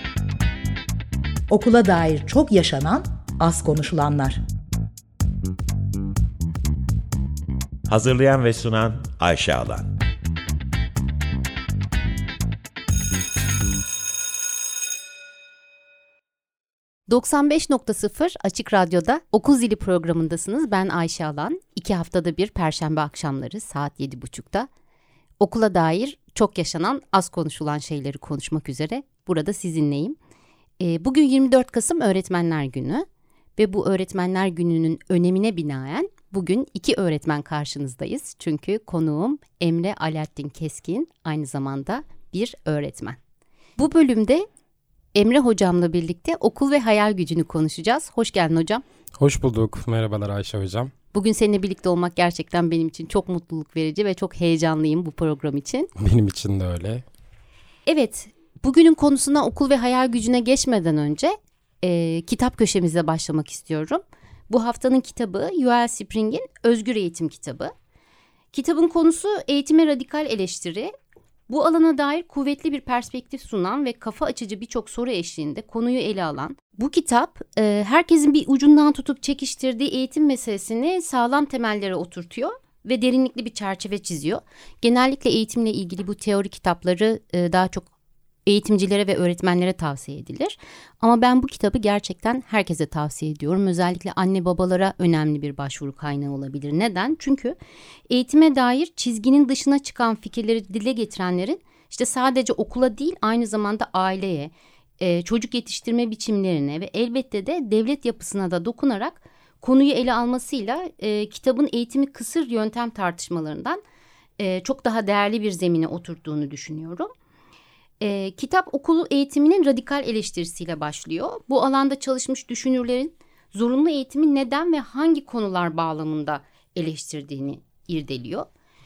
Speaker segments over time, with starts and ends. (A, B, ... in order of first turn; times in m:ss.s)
0:01.5-0:04.4 A
0:07.9-0:09.9 B
0:17.1-0:24.7 C
0:25.4-0:30.2 C
0:30.8-0:33.0 C
0:33.6-0:43.2 C
0:43.8-0:44.4 C
0:45.1-0:48.8 C
0:49.2-0:50.9 D
0:51.1-0:55.9 C
0:56.0-0:57.0 D
0:57.9-1:07.7 C
1:08.5-1:10.9 C
1:11.5-1:27.9 C
1:28.4-1:37.6 C
1:38.1-1:53.8 C
1:54.4-1:57.1 C
1:58.0-2:08.5 C